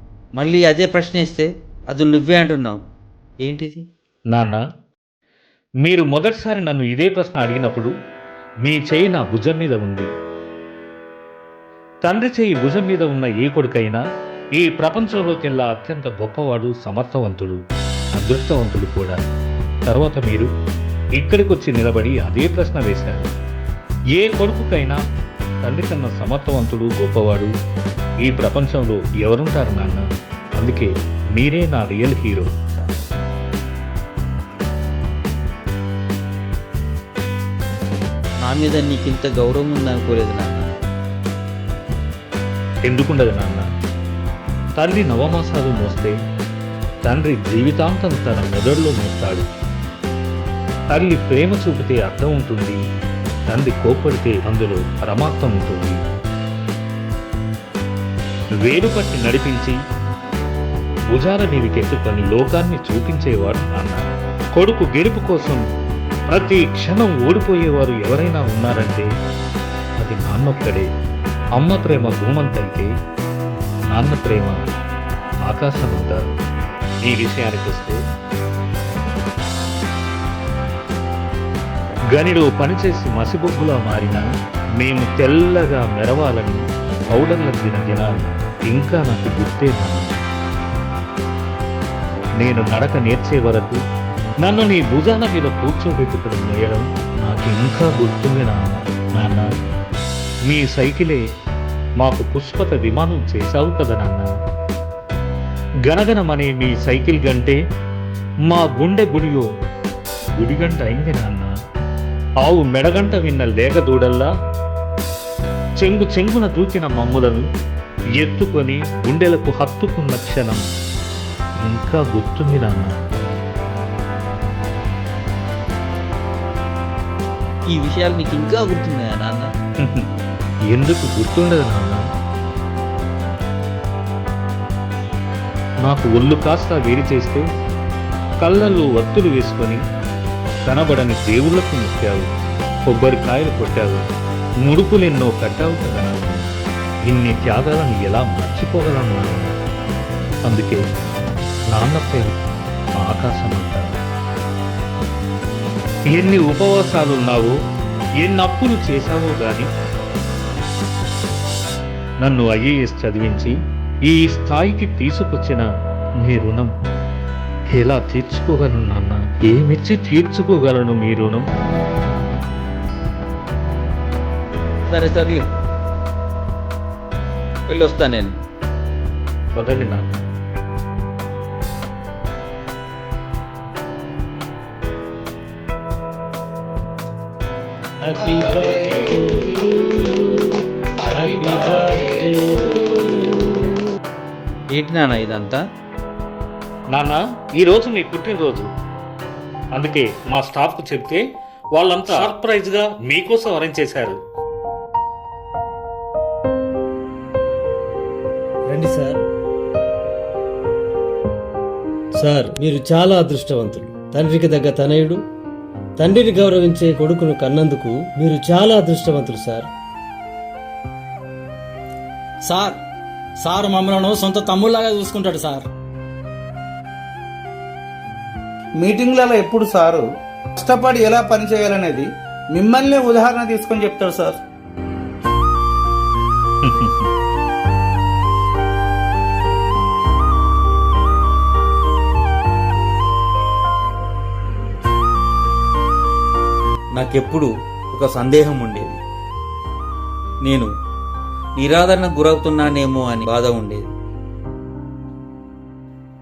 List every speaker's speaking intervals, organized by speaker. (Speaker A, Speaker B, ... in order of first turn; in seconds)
Speaker A: 0.4-2.8, 3.4-3.8, 38.4-40.7, 127.7-129.5, 174.9-175.4, 177.7-178.3, 194.7-195.6, 246.9-249.0, 251.6-253.9
Speaker B: 4.3-4.6, 5.8-7.9, 8.6-10.1, 12.0-14.0, 14.6-17.6, 18.1-19.2, 19.9-20.5, 21.2-23.3, 24.1-25.0, 25.6-27.5, 28.2-30.0, 30.6-32.5, 42.9-43.6, 44.8-46.1, 47.0-49.5, 50.9-52.8, 53.5-56.0, 58.6-59.8, 61.1-64.0, 64.5-65.6, 66.3-69.1, 70.0-70.8, 71.6-72.9, 73.9-74.7, 75.5-76.2, 77.0-78.0, 82.1-84.3, 84.8-86.6, 87.1-90.2, 92.4-93.8, 94.4-99.5, 100.5-101.2, 102.0-104.3, 105.9-107.6, 108.5-109.5, 110.4-111.5, 112.4-114.3, 115.8-117.4, 118.2-120.6, 121.7-123.0, 129.8-130.1, 130.7-132.0, 135.8-137.4, 138.4-139.8, 140.7-142.3, 142.9-144.0, 144.6-146.4, 147.1-149.5, 150.5-150.8, 151.7-152.3, 153.0-153.9, 156.1-157.5, 158.2-159.7, 162.2-163.5, 164.1-165.6, 166.2-166.7, 167.7-171.4, 179.5-180.2, 196.9-198.7, 199.7-201.2, 201.7-204.2, 236.6-237.1
Speaker C: 188.0-190.5, 191.1-193.6, 208.7-209.2, 212.2-215.2, 216.0-219.7
Speaker D: 222.4-222.8, 223.4-225.7
Speaker E: 228.8-230.0, 230.6-234.4